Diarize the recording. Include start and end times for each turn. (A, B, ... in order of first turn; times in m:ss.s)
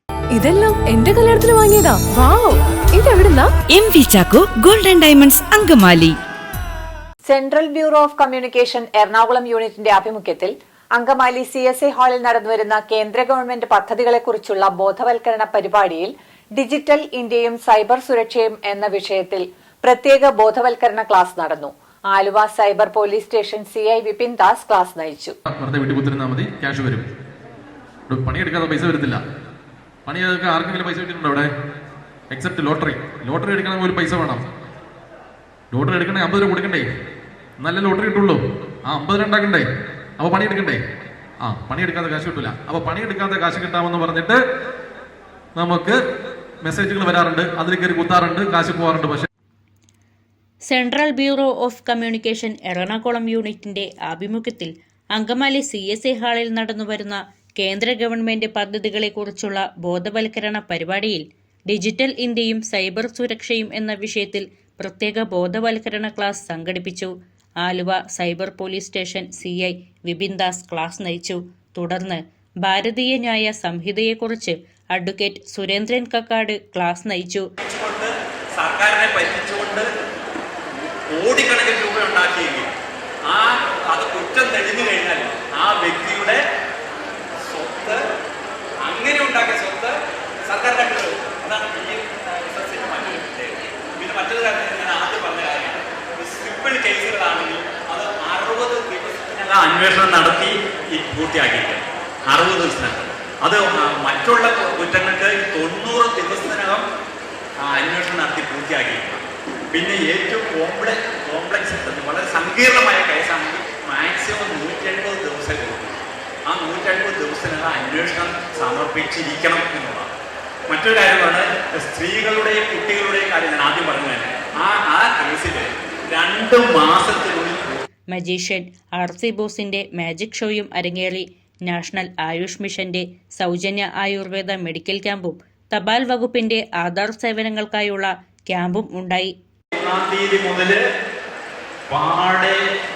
0:00.3-0:03.5 A
0:03.7-0:06.2 B
0:07.2-0:25.3 C
0:25.4-0:27.0 D
0:28.1-0:29.2 D
0:30.0-0:31.5 D
0:32.3-0:34.4 D
0:35.7-0:36.8 D
0:37.6-0:39.6 D
0:40.2-0:40.8 D
0:41.4-0:44.4 D
0:45.6-0:46.0 D
0:46.6-0:49.3 D
0:50.7-1:17.4 E
1:17.6-1:19.8 F
1:21.1-1:22.7 F
1:23.3-1:26.4 F
1:27.4-1:28.0 F
1:28.8-1:29.9 F
1:30.4-1:46.8 F
1:47.6-2:00.1 F
2:00.7-2:07.8 F
2:08.1-2:19.3 E
2:19.8-2:20.8 F
2:21.9-2:22.6 F